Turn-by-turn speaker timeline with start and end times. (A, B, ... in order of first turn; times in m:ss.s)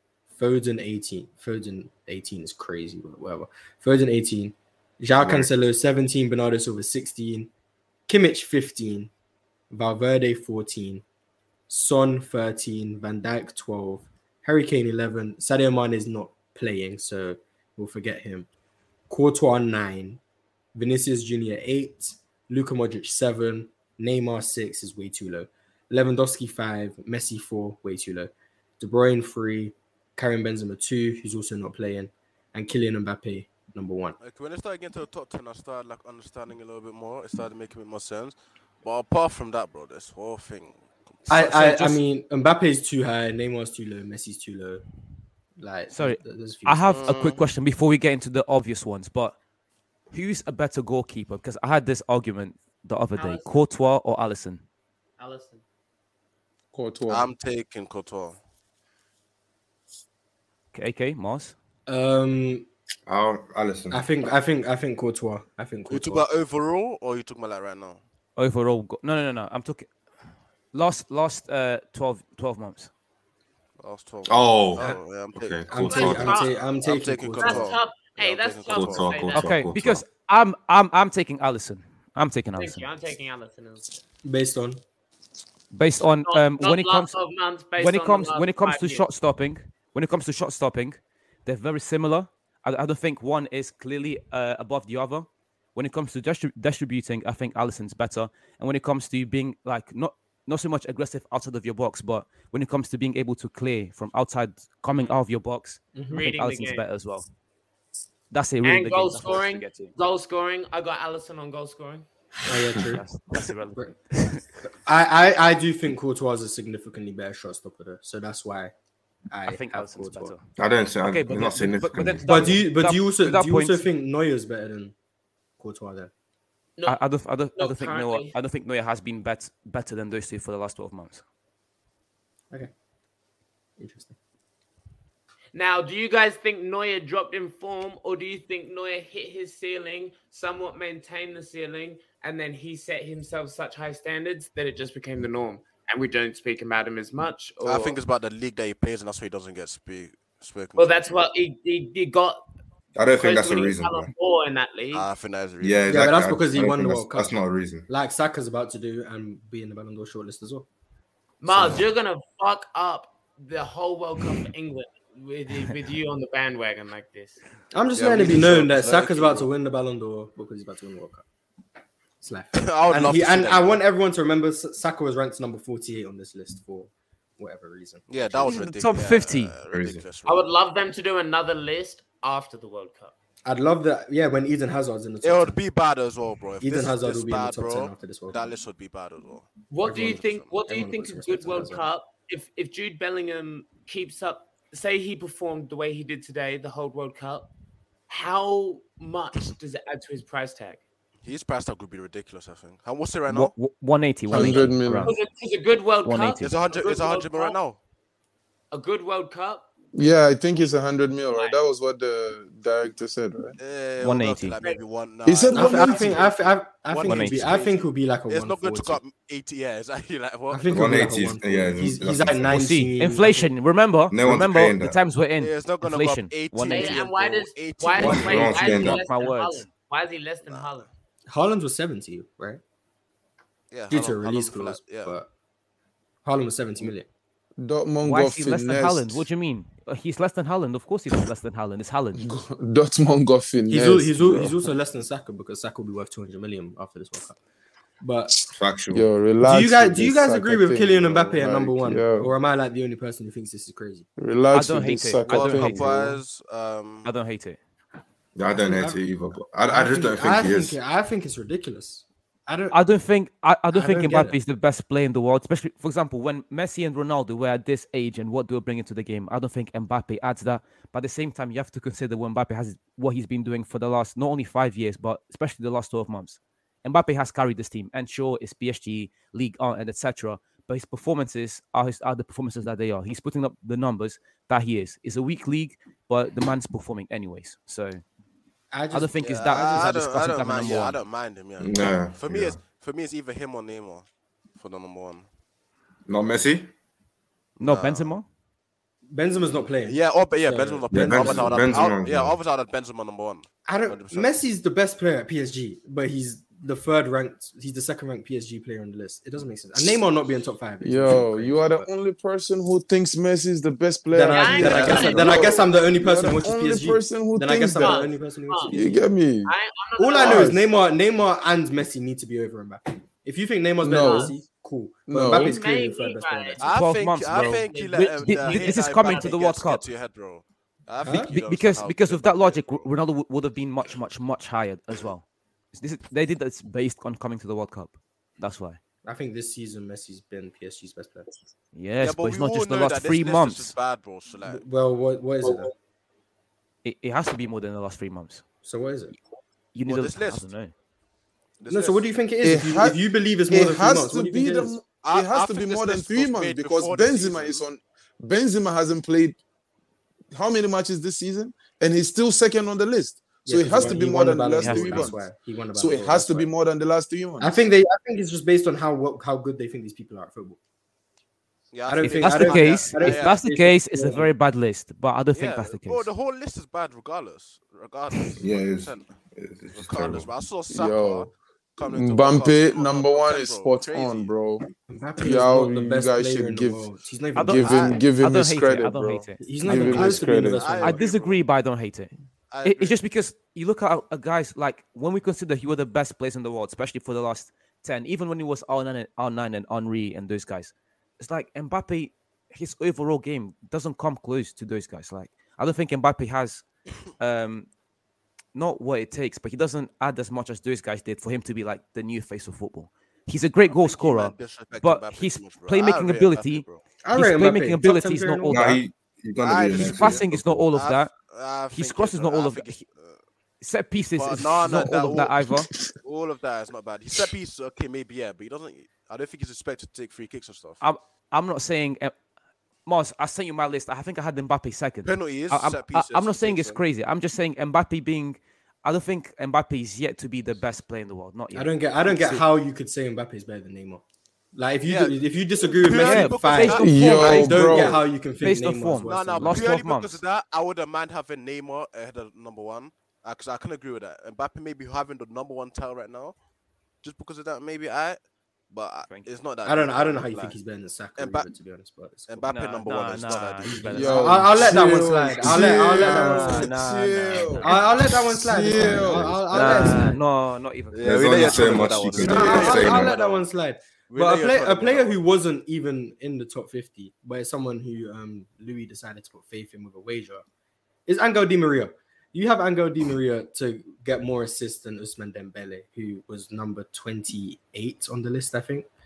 0:00.3-0:07.5 A
0:05.2-0:05.5 B
0:08.1-0:09.1 A
0:09.7-0:11.0 A
0:11.7-0:18.5 A
0:19.1-0:20.2 A
0:20.7-0:34.2 A
0:34.2-0:41.3 C
0:41.3-0:44.8 A
0:41.3-0:42.0 D
0:45.6-0:47.0 A
0:45.9-0:49.4 D
0:46.9-0:47.4 C
0:50.1-0:54.6 D
0:53.2-0:53.5 E
0:55.2-0:55.6 E
0:56.7-0:57.3 F
0:57.1-0:58.4 C
1:00.7-1:01.5 D
1:01.9-1:02.7 A
1:03.1-1:04.0 B
1:03.9-1:06.2 A
1:05.9-1:08.0 C
1:08.4-1:09.9 D
1:10.7-1:12.9 D
1:13.8-1:19.2 C
1:14.3-1:16.4 B
1:15.7-1:17.7 A
1:15.8-1:16.6 E
1:17.4-1:19.6 E
1:18.7-1:20.0 B
1:19.3-1:22.8 D
1:22.6-1:24.0 E
1:24.2-1:24.8 A
1:25.7-1:27.1 D
1:26.2-1:29.1 E
1:27.8-1:47.3 D
1:46.0-1:46.2 A
1:46.1-1:46.8 E
1:48.3-1:49.9 D
1:48.6-1:52.0 E
1:52.4-1:53.0 A
1:52.7-1:54.4 D
1:54.6-1:58.7 A
1:59.3-2:00.3 A
1:59.4-2:00.4 D
2:00.6-2:02.6 B
2:01.0-2:03.9 D
2:02.2-2:04.9 A
2:05.6-2:06.1 A
2:06.8-2:11.2 D
2:07.6-2:08.3 E
2:13.8-2:14.1 A
2:15.5-2:28.0 E
2:27.6-2:31.3 C
2:30.8-2:32.4 E
2:33.0-2:34.1 B
2:33.2-2:35.1 E
2:34.9-2:36.0 C
2:35.6-2:37.9 B
2:35.9-2:40.7 A
2:41.4-2:47.4 E
2:47.7-2:51.2 A
2:48.0-2:49.4 C
2:52.2-2:58.5 A
2:52.5-2:53.8 C
2:58.1-3:00.5 C
2:58.4-2:59.5 D
2:59.7-3:00.1 B
3:00.2-3:03.1 E
3:03.4-3:05.6 A
3:05.2-3:10.6 C
3:06.6-3:08.4 A
3:09.7-3:17.5 E
3:09.8-3:11.8 A
3:18.1-3:20.8 E
3:21.2-3:23.5 C
3:23.3-3:25.2 D
3:24.3-3:25.1 F
3:25.0-3:27.6 E
3:26.0-3:26.5 D
3:26.4-3:27.8 C
3:28.7-3:29.6 E
3:29.9-3:33.5 F
3:31.3-3:31.6 E
3:33.6-3:40.7 C
3:34.0-3:34.6 D
3:35.2-3:36.2 F
3:35.5-3:39.0 A
3:37.0-3:37.4 D
3:40.5-3:43.5 A
3:40.7-3:42.6 B
3:42.5-3:47.0 D
3:44.1-3:45.0 B
3:45.4-3:48.9 C
3:46.7-3:50.9 E
3:48.0-3:49.0 B
3:48.3-3:49.6 D
3:50.4-3:50.8 C
3:51.3-3:52.6 A
3:53.7-3:55.2 C
3:53.9-3:55.3 A
3:56.2-3:57.1 A
3:57.6-3:59.2 F
3:58.0-4:02.2 D
4:02.2-4:04.7 F
4:03.7-4:07.4 A
4:08.0-4:08.4 A
4:08.5-4:09.0 B
4:08.9-4:12.3 F
4:09.4-4:14.0 A
4:14.2-4:16.0 F
4:14.5-4:16.2 D
4:15.3-4:17.1 C
4:17.0-4:17.6 D
4:18.4-4:20.8 B
4:18.6-4:19.0 A
4:19.6-4:22.8 A
4:22.7-4:48.0 D
4:23.7-4:24.4 A
4:48.7-4:49.9 A
4:48.9-4:51.0 D
4:49.2-4:54.0 C
4:51.6-4:52.6 B
4:54.6-4:55.2 C
4:56.1-4:56.7 B
4:57.6-4:58.2 D
4:57.6-4:58.1 C
4:59.1-5:01.8 A
4:59.8-5:04.4 C
5:00.9-5:02.4 B
5:03.6-5:11.9 A
5:10.8-5:18.0 F
5:14.1-5:19.1 A
5:14.3-5:15.5 E
5:17.8-5:18.8 E
5:18.7-5:19.5 F
5:19.4-5:20.5 E
5:20.0-5:26.7 A
5:20.2-5:20.6 F
5:23.8-5:24.3 F
5:24.0-5:24.3 E
5:25.1-5:25.5 F
5:25.3-5:26.6 E
5:26.6-5:32.9 C
5:26.6-5:29.8 D
5:27.5-5:29.4 E
5:31.0-5:31.3 A
5:31.3-5:38.8 D
5:39.0-5:41.3 A
5:41.7-5:43.7 D
5:42.0-5:44.6 C
5:44.4-5:45.7 A
5:46.8-5:48.4 D
5:48.6-5:49.1 A
5:49.7-5:50.7 D
5:49.8-5:50.4 C
5:51.6-5:52.0 C
5:51.7-5:54.8 A
5:52.4-5:59.4 F
5:55.0-5:57.6 C
6:00.3-6:05.2 F
6:03.4-6:06.5 A
6:04.6-6:05.1 D
6:05.7-6:07.5 F
6:07.4-6:10.6 A
6:11.7-6:13.4 C
6:11.9-6:14.3 A
6:12.0-6:16.1 D
6:15.3-6:19.1 C
6:18.4-6:20.3 B
6:19.7-6:24.3 C
6:20.7-6:21.3 F
6:21.8-6:24.6 F
6:24.9-6:28.0 A
6:25.2-6:30.8 F
6:27.4-6:30.2 D
6:27.6-6:27.9 C
6:29.4-6:31.0 A
6:29.9-6:31.4 C
6:30.8-6:32.1 D
6:32.5-6:33.0 C
6:32.6-6:46.6 D
6:47.2-6:47.7 D
6:48.5-6:58.8 D
6:53.7-6:56.8 C
6:57.0-6:58.6 A
6:58.5-7:00.6 B
6:59.4-7:03.2 C
6:59.8-7:01.1 D
7:01.7-7:02.8 D
7:03.6-7:05.7 D
7:04.0-7:05.5 C
7:04.7-7:05.2 F
7:06.0-7:10.8 C
7:10.8-7:12.1 D
7:12.8-7:22.4 D
7:15.0-7:16.8 C
7:21.5-7:24.0 A
7:24.5-7:29.7 A
7:24.8-7:27.5 C
7:25.9-7:30.2 D
7:26.8-7:28.0 F
7:29.1-7:36.4 C
7:37.0-7:38.2 C
7:38.7-7:40.6 C
7:39.6-7:42.4 A
7:41.2-7:41.5 C
7:42.3-7:44.1 C
7:42.5-7:44.6 D
7:43.6-7:46.7 A
7:43.9-7:49.7 F
7:46.0-7:47.8 D
7:47.6-7:50.2 A
7:48.7-7:49.4 B
7:49.5-7:51.9 D
7:50.9-7:53.5 C
7:51.0-7:53.1 B
7:52.2-8:00.4 A
7:54.1-7:55.2 C
8:01.1-8:08.8 A